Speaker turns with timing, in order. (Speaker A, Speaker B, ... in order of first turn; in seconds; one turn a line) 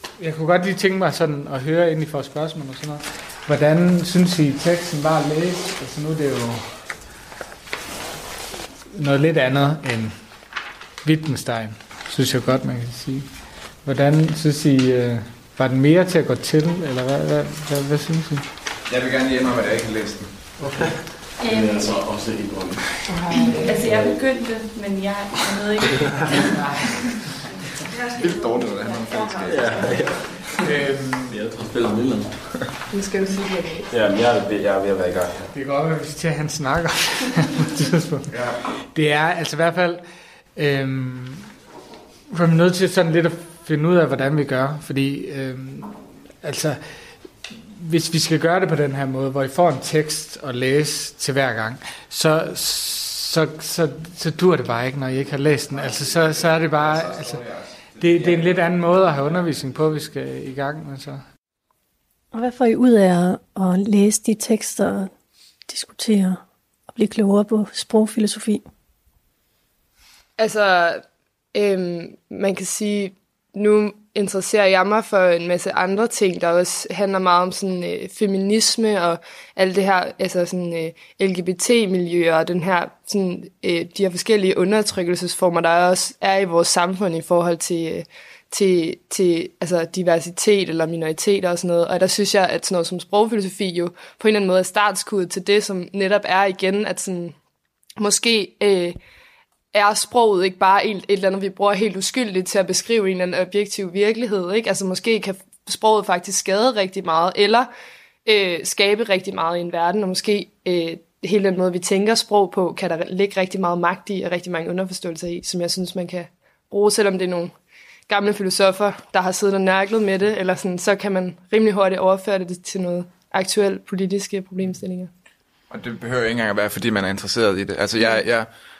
Speaker A: 0.2-6.9
Speaker A: 8.9-10.2
Speaker A: 11.0-18.4
Speaker B: 18.9-20.3
Speaker A: 20.6-20.9
Speaker C: 21.4-22.0
Speaker D: 21.5-23.2
Speaker C: 23.2-26.6
Speaker D: 23.8-24.2
Speaker D: 25.9-26.3
Speaker A: 26.3-27.2
Speaker C: 27.9-30.2
Speaker B: 28.1-30.0
Speaker D: 29.4-30.7
Speaker A: 30.6-31.4
Speaker D: 31.3-32.6
Speaker E: 32.9-33.9
Speaker D: 33.9-35.5
Speaker A: 35.5-40.0
Speaker A: 40.5-41.5
Speaker A: 42.3-57.4
Speaker B: 55.7-58.9
Speaker A: 58.0-61.2
Speaker F: 62.3-65.1
Speaker F: 65.7-68.7
Speaker E: 70.4-97.3
Speaker E: 98.0-99.0
Speaker E: 99.7-107.7
Speaker E: 108.2-117.5
Speaker E: 118.1-125.1
Speaker B: 125.7-128.5